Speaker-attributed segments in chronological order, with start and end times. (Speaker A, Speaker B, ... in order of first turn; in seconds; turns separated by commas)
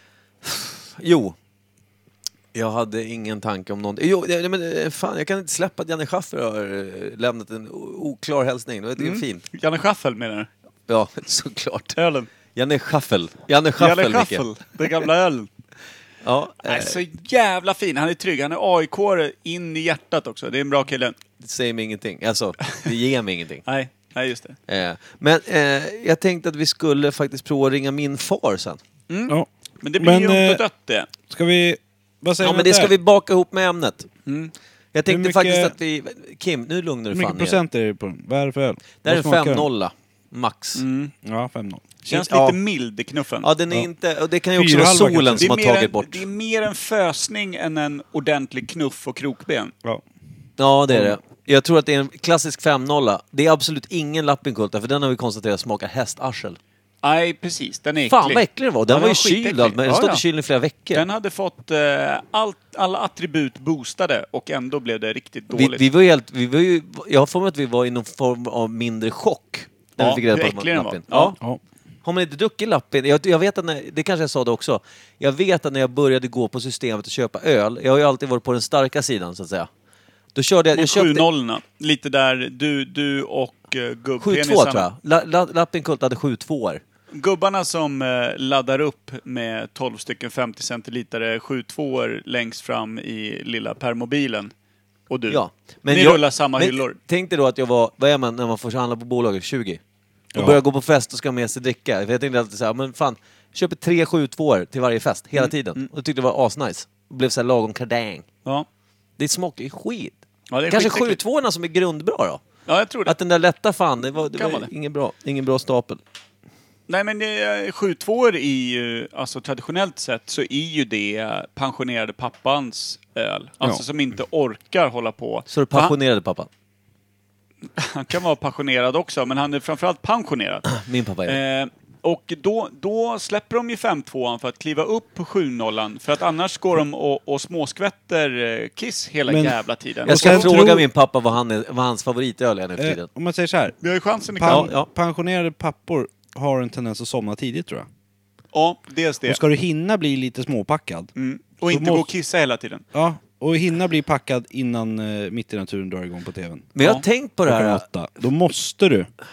Speaker A: 0.4-1.4, Speaker A: 2.5-9.5, Speaker B: 9.0-10.5, Speaker A: 10.9-12.0, Speaker B: 12.0-12.3, Speaker A: 12.6-14.4, Speaker B: 13.8-15.5, Speaker A: 16.2-17.0, Speaker B: 16.6-21.2, Speaker A: 21.4-23.6, Speaker B: 23.7-24.6, Speaker A: 24.7-28.8, Speaker B: 29.1-31.1, Speaker C: 29.3-30.6, Speaker C: 31.3-32.9, Speaker A: 32.4-34.1, Speaker B: 34.3-34.5, Speaker A: 34.9-37.6, Speaker C: 35.1-35.7, Speaker C: 37.1-39.7, Speaker A: 39.0-40.8, Speaker B: 40.8-41.1, Speaker C: 41.2-41.9, Speaker B: 42.1-43.5, Speaker A: 42.1-42.6, Speaker A: 43.4-46.2, Speaker C: 44.5-45.5, Speaker B: 45.4-49.7, Speaker A: 50.6-56.6, Speaker B: 57.0-60.2, Speaker A: 58.1-61.1, Speaker B: 60.9-65.8, Speaker A: 65.5-71.4, Speaker B: 70.0-71.3, Speaker A: 72.0-79.7, Speaker A: 80.3-81.2, Speaker B: 80.8-84.9, Speaker A: 84.2-86.8, Speaker B: 87.1-94.5, Speaker B: 95.1-97.0, Speaker A: 95.3-99.8, Speaker C: 100.3-100.6, Speaker A: 100.3-108.3, Speaker B: 105.4-105.9, Speaker A: 109.2-110.2, Speaker B: 110.5-111.2, Speaker A: 110.7-112.4, Speaker B: 112.7-113.2, Speaker A: 113.1-116.0, Speaker B: 114.4-114.7, Speaker B: 116.9-126.0, Speaker A: 125.5-126.5, Speaker B: 127.8-130.7, Speaker A: 130.7-131.4, Speaker B: 131.3-140.5, Speaker C: 139.3-140.9, Speaker A: 140.1-143.1, Speaker C: 142.8-143.8, Speaker B: 143.8-144.7, Speaker C: 144.3-147.9, Speaker A: 144.5-144.9, Speaker B: 148.5-149.4, Speaker C: 149.3-151.1, Speaker B: 151.2-152.8, Speaker C: 151.7-152.1, Speaker C: 152.9-156.7, Speaker A: 156.8-157.8, Speaker C: 157.5-159.1